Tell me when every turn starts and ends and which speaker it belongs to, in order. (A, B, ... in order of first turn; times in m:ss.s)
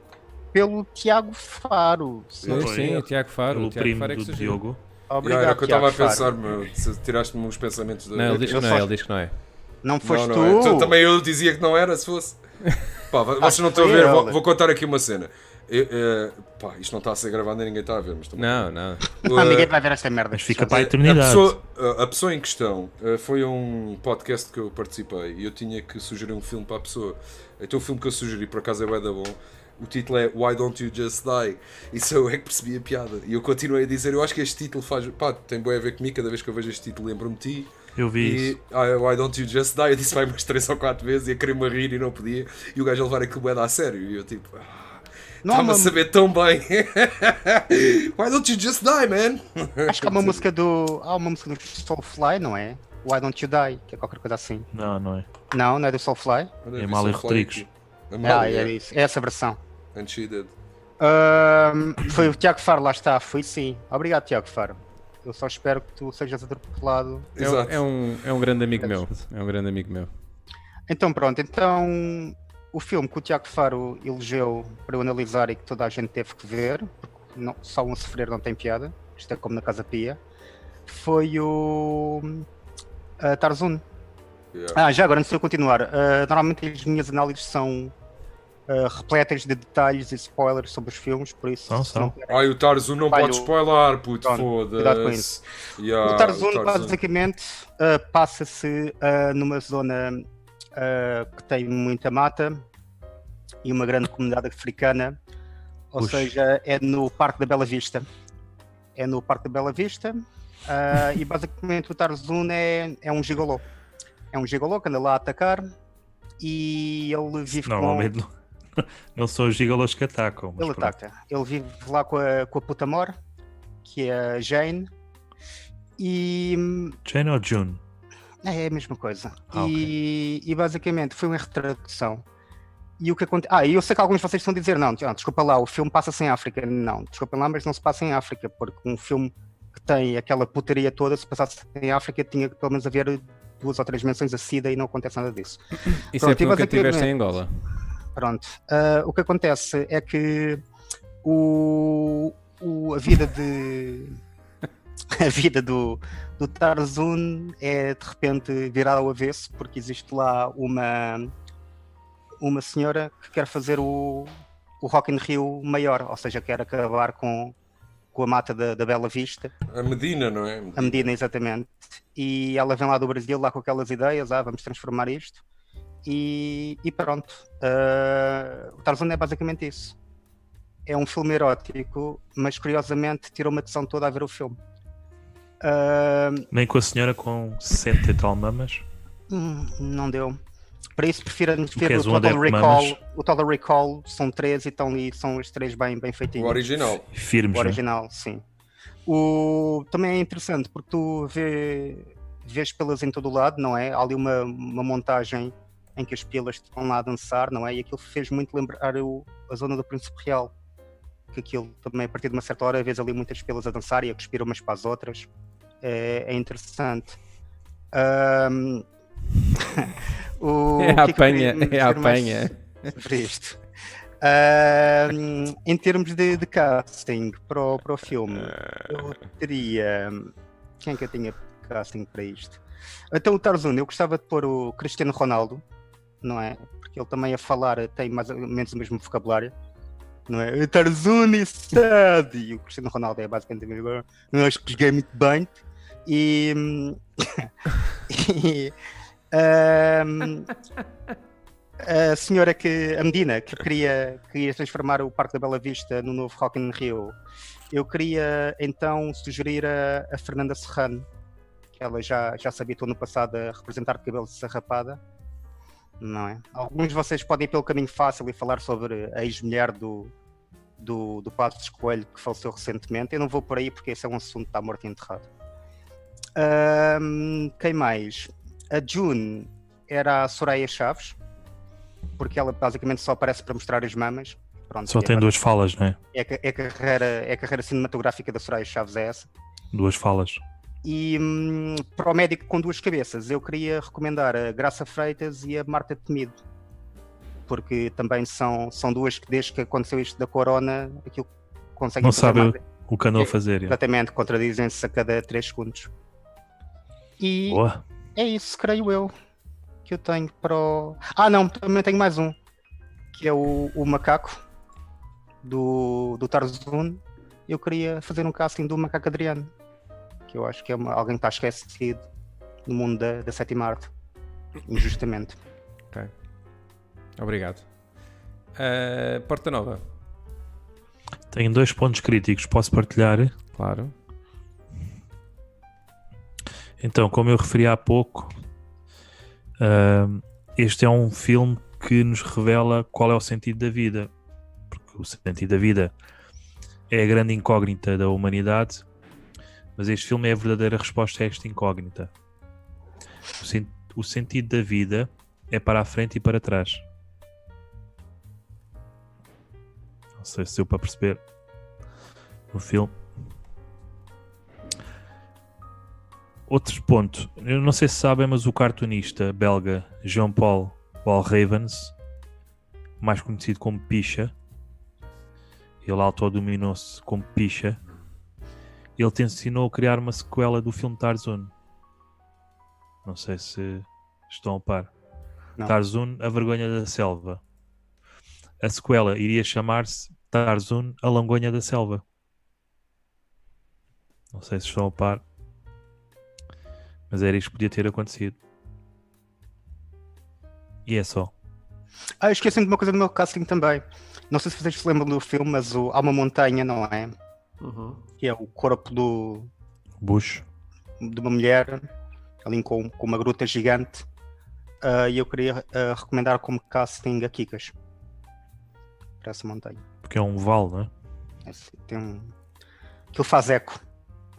0:00.5-0:03.0 A
0:02.4-0:02.7 B
0:02.5-0:04.6 C
0:02.5-0:04.8 D
0:05.1-0:06.3 A
0:05.2-0:08.6 B
0:08.1-0:09.3 C
0:08.3-0:08.9 A
0:09.8-0:11.0 A
0:10.0-0:12.4 B
0:13.1-0:19.7 B
0:13.4-0:14.4 A
0:18.4-0:19.1 C
0:19.2-0:20.9 A
0:20.3-0:21.5 D
0:20.7-0:50.4 B
0:38.0-0:38.6 D
0:45.4-0:46.0 A
0:49.8-0:54.7 A
0:54.7-0:55.3 D
0:55.5-0:56.5 A
0:56.6-0:58.7 B
0:56.8-0:57.6 D
0:58.2-0:59.6 A
0:59.9-1:00.5 B
1:01.0-1:07.3 A
1:07.4-1:07.8 B
1:07.4-1:10.1 C
1:10.9-1:20.2 A
1:20.9-1:22.4 A
1:23.2-1:23.8 A
1:24.5-1:24.8 B
1:24.7-1:27.9 A
1:28.7-1:32.4 A
1:31.7-1:32.1 D
1:32.3-1:37.0 B
1:33.1-1:33.5 A
1:34.2-1:35.3 A
1:36.0-1:40.2 A
1:40.8-1:42.6 A
1:43.6-1:45.2 A
1:45.9-1:48.0 A
1:46.0-1:46.3 D
1:49.0-1:53.6 A
1:54.3-1:55.7 A
1:56.4-1:58.1 A
1:57.6-2:01.0 D
2:00.6-2:03.1 A
2:03.8-2:04.9 A
2:06.0-2:07.0 A
2:07.0-2:07.8 D
2:08.4-2:12.2 A
2:09.5-2:09.9 D
2:13.0-2:27.1 A
2:26.1-2:27.5 C
2:28.2-2:30.6 A
2:31.2-2:34.2 A
2:35.1-2:41.3 A
2:42.4-2:47.5 A
2:48.1-2:49.5 A
2:49.7-2:51.1 B
2:50.8-2:55.4 A
2:56.0-3:00.0 A
3:00.9-3:04.6 A
3:05.6-3:06.5 A
3:06.5-3:08.8 D
3:09.3-3:10.4 A
3:11.0-3:16.7 A
3:11.7-3:13.0 D
3:16.4-3:17.0 B
3:17.1-3:17.8 D
3:17.5-3:18.4 A
3:19.0-3:30.5 A
3:31.3-3:35.3 A
3:35.8-3:37.2 A
3:37.9-3:38.8 A
3:39.6-3:43.6 A
3:40.8-3:42.8 C
3:44.2-3:50.3 A
3:50.8-3:52.6 A
3:53.1-3:55.6 A
3:56.2-3:59.5 A
4:00.3-4:07.5 A
4:08.1-4:08.7 A
4:09.3-4:10.5 A
4:11.8-4:17.1 A
4:17.7-4:21.0 A
4:21.8-4:25.0 A
4:26.0-4:30.1 A
4:30.8-4:35.3 A
4:36.4-4:41.2 A
4:42.2-4:45.4 A
4:44.9-4:46.0 D
4:46.1-4:49.3 A
4:49.7-4:50.4 D
4:50.8-4:56.4 A
4:57.5-5:02.6 A
5:02.0-5:03.8 D
5:03.2-5:05.9 A
5:07.2-5:07.6 A
5:07.5-5:07.8 D
5:08.2-5:09.1 A
5:09.8-5:12.3 A
5:13.1-5:14.4 A
5:15.4-5:19.5 A
5:20.3-5:22.0 A
5:22.6-5:23.9 A
5:24.6-5:25.4 A
5:27.2-5:27.6 C
5:28.5-5:29.8 C
5:31.3-5:33.3 D
5:33.5-5:33.9 C
5:36.8-5:38.4 D
5:39.6-5:44.1 D
5:44.7-5:45.9 D
5:46.9-5:48.8 D
5:49.8-5:52.1 D
5:53.4-5:56.8 D
6:00.2-6:01.2 D
6:02.5-6:03.0 D
6:06.5-6:11.9 D
6:13.0-6:14.3 D
6:15.8-6:17.8 D
6:19.0-6:21.5 D
6:23.0-6:24.9 D
6:25.6-6:27.4 D
6:28.6-6:32.0 D
6:34.3-6:35.2 D
6:37.1-6:38.4 D
6:40.8-6:41.3 D
6:42.2-6:47.1 A
6:48.2-6:49.5 A
6:50.0-6:50.4 D
6:51.0-6:51.8 A
6:52.4-6:54.0 A
6:54.8-6:57.7 A
6:59.2-6:59.8 A
7:00.0-7:00.9 D
7:01.4-7:02.3 A
7:03.1-7:03.8 A